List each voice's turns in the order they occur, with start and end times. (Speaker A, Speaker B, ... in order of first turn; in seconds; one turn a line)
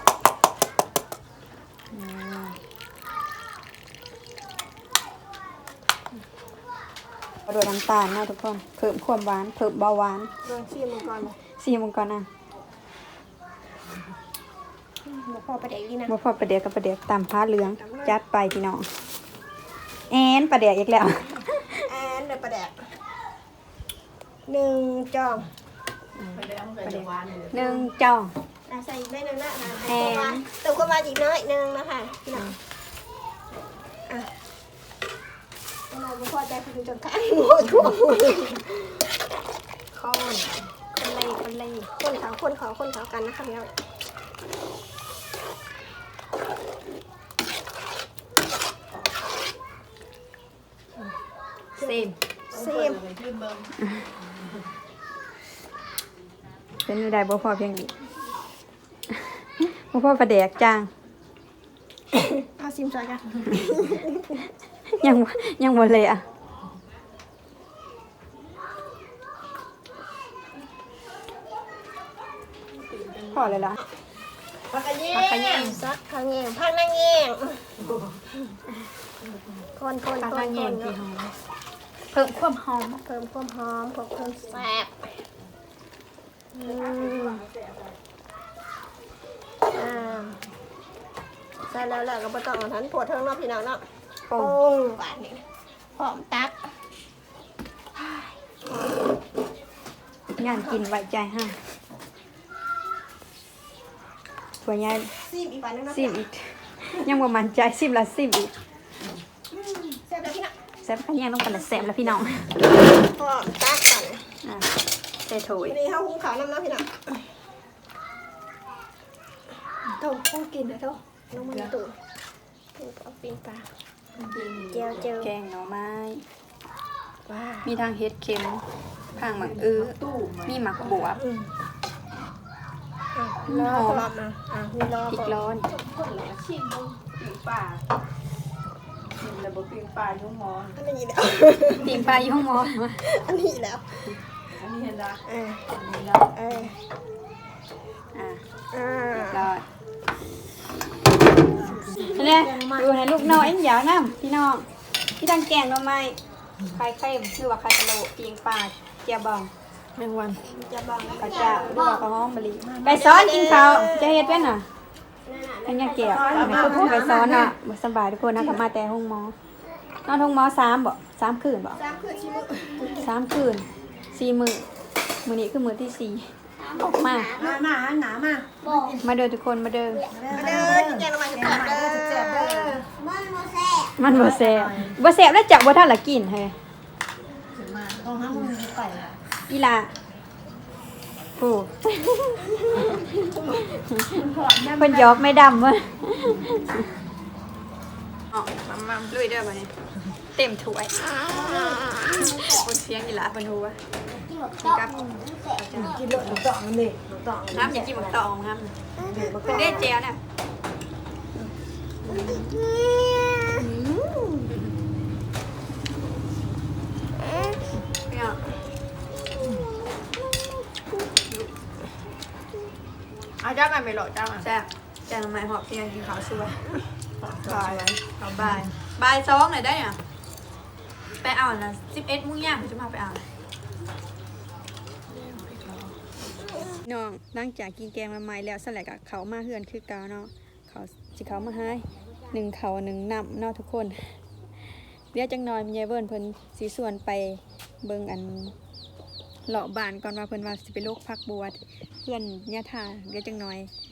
Speaker A: 1.9-2.6
Speaker A: 7.5-10.3
Speaker B: 10.4-11.4
Speaker A: 11.6-12.3
Speaker B: 15.0-16.1
Speaker A: 16.1-18.9
Speaker B: 17.6-18.1
Speaker A: 20.1-21.7
Speaker B: 21.9-22.8
Speaker B: 24.5-25.5
Speaker A: 26.1-28.3
Speaker C: 26.3-27.6
Speaker B: 27.5-27.9
Speaker B: 28.7-32.5
Speaker A: 29.8-30.4
Speaker B: 35.9-38.8
Speaker A: 39.9-41.9
Speaker B: 41.9-43.7
Speaker B: 51.8-53.0
Speaker A: 51.8-52.1
Speaker C: 52.5-53.7
Speaker A: 56.8-57.9
Speaker A: 59.4-60.9
Speaker B: 62.2-64.3
Speaker A: 64.9-66.2
Speaker C: 72.8-73.4
Speaker A: 73.3-73.8
Speaker B: 74.7-77.8
Speaker A: 75.1-75.8
Speaker B: 79.8-81.0
Speaker A: 80.2-81.3
Speaker A: 82.1-83.0
Speaker B: 83.0-85.1
Speaker B: 86.5-87.5
Speaker C: 86.8-87.9
Speaker B: 89.7-90.4
Speaker B: 91.7-93.8
Speaker A: 94.3-94.6
Speaker B: 94.3-95.4
Speaker B: 96.0-96.7
Speaker A: 100.4-101.6
Speaker B: 100.4-100.8
Speaker A: 104.6-105.1
Speaker B: 105.2-106.2
Speaker A: 105.9-108.5
Speaker B: 109.5-110.5
Speaker A: 110.8-112.5
Speaker B: 111.8-112.1
Speaker B: 112.9-114.2
Speaker A: 114.4-114.7
Speaker A: 115.3-115.8
Speaker B: 115.7-117.2
Speaker B: 119.9-121.9
Speaker C: 121.4-121.7
Speaker B: 122.8-123.7
Speaker C: 124.1-125.1
Speaker B: 124.7-125.3
Speaker A: 125.2-126.2
Speaker B: 127.3-127.7
Speaker A: 127.6-128.6
Speaker A: 129.2-129.9
Speaker C: 129.2-131.0
Speaker A: 130.4-131.2
Speaker B: 131.1-131.5
Speaker B: 133.1-135.4
Speaker A: 133.5-134.0
Speaker A: 135.1-135.7
Speaker C: 135.7-137.8
Speaker C: 139.2-140.8
Speaker B: 140.8-142.1
Speaker A: 141.8-143.0
Speaker B: 143.0-144.1
Speaker C: 144.5-145.2
Speaker B: 145.2-145.7
Speaker C: 145.8-146.2
Speaker B: 146.3-146.8
Speaker A: 148.1-148.4
Speaker B: 148.7-149.4
Speaker A: 149.1-149.6
Speaker D: 151.7-153.4
Speaker A: 152.1-154.7
Speaker A: 155.2-159.5
Speaker C: 160.0-160.4
Speaker B: 160.4-161.8
Speaker A: 161.2-164.7
Speaker D: 161.2-162.1
Speaker D: 162.6-163.0
Speaker B: 162.8-164.6
Speaker B: 165.2-166.7
Speaker A: 165.7-169.3
Speaker D: 166.0-167.5
Speaker C: 166.3-167.1
Speaker A: 170.1-171.8
Speaker B: 171.8-173.1
Speaker A: 173.0-174.7
Speaker A: 175.2-177.3
Speaker D: 177.4-179.0
Speaker A: 179.0-180.7
Speaker D: 180.1-184.0
Speaker B: 180.3-182.8
Speaker A: 184.0-186.6
Speaker C: 184.1-185.0
Speaker C: 187.5-188.2
Speaker D: 188.0-189.2
Speaker A: 189.5-189.9
Speaker A: 191.4-194.2
Speaker C: 194.1-195.2
Speaker A: 194.7-196.8
Speaker C: 198.6-199.1
Speaker A: 199.1-199.7
Speaker A: 200.3-200.9
Speaker B: 201.2-202.1
Speaker D: 201.3-202.6
Speaker A: 202.1-203.8
Speaker D: 204.1-208.2
Speaker A: 204.6-205.1
Speaker A: 205.6-206.4
Speaker A: 207.5-208.7
Speaker B: 209.0-209.9
Speaker D: 209.0-209.8
Speaker A: 209.4-210.2
Speaker B: 212.1-214.3
Speaker A: 212.1-212.5
Speaker B: 217.3-217.6
Speaker A: 218.1-218.4
Speaker C: 223.4-224.4
Speaker A: 224.4-226.8
Speaker C: 227.2-228.7
Speaker A: 227.4-230.0
Speaker A: 231.2-233.2
Speaker C: 235.1-236.0
Speaker A: 236.8-244.2
Speaker A: 245.1-248.5
Speaker A: 249.4-253.7